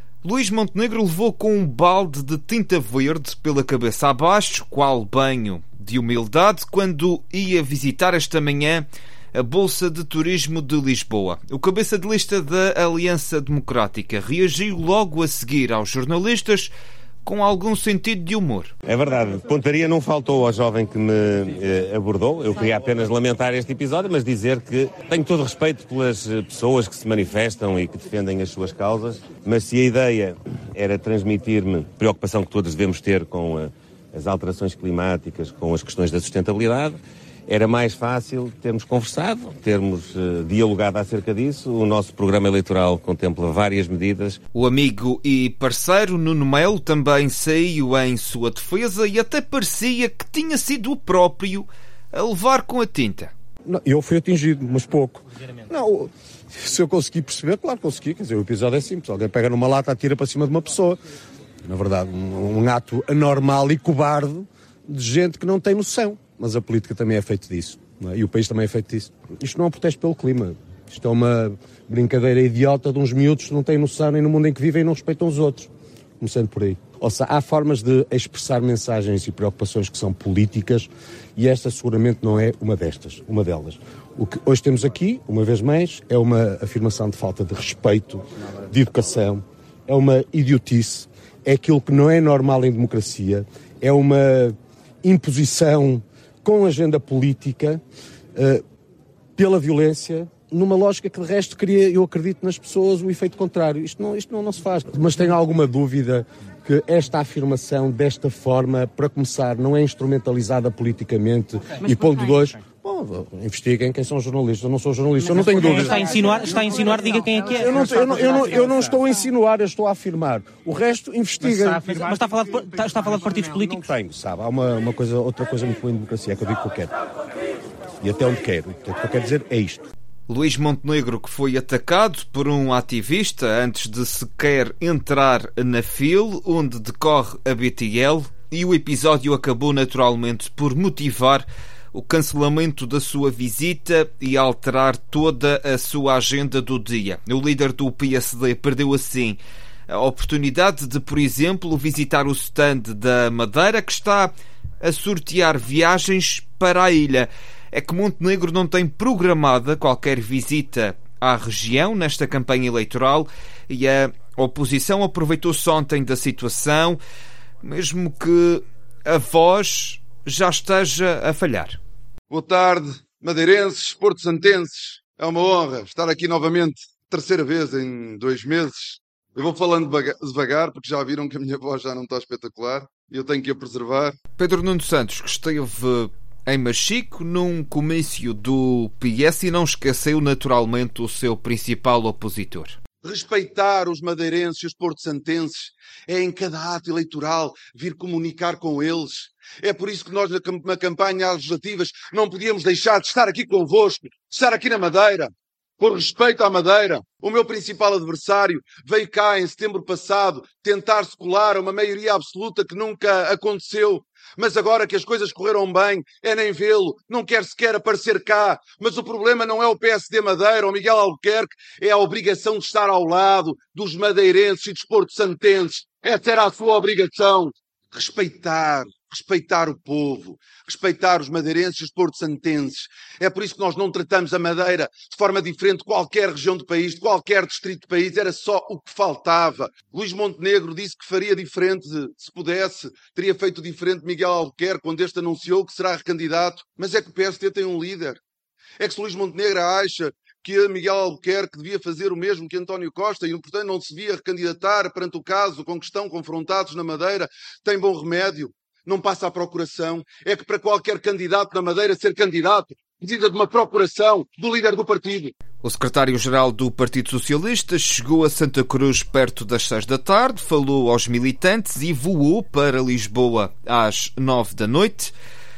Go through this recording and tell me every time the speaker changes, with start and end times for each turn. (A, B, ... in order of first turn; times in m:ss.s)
0:00.2-0:16.7 A
0:17.2-0:18.7 A
0:18.8-0:44.4 B
0:44.5-0:53.3 A
0:53.6-1:01.0 C
1:01.6-1:37.8 C
1:38.4-1:38.6 C
1:39.4-2:02.0 C
1:55.4-1:58.2 D
2:01.9-2:03.8 D
2:03.6-2:06.9 C
2:08.0-2:09.9 C
2:10.3-2:47.0 A
2:47.6-2:51.8 A
2:52.3-3:04.2 E
3:04.4-3:12.8 A
3:13.0-4:08.2 E
4:08.8-4:25.3 E
4:25.6-4:35.1 A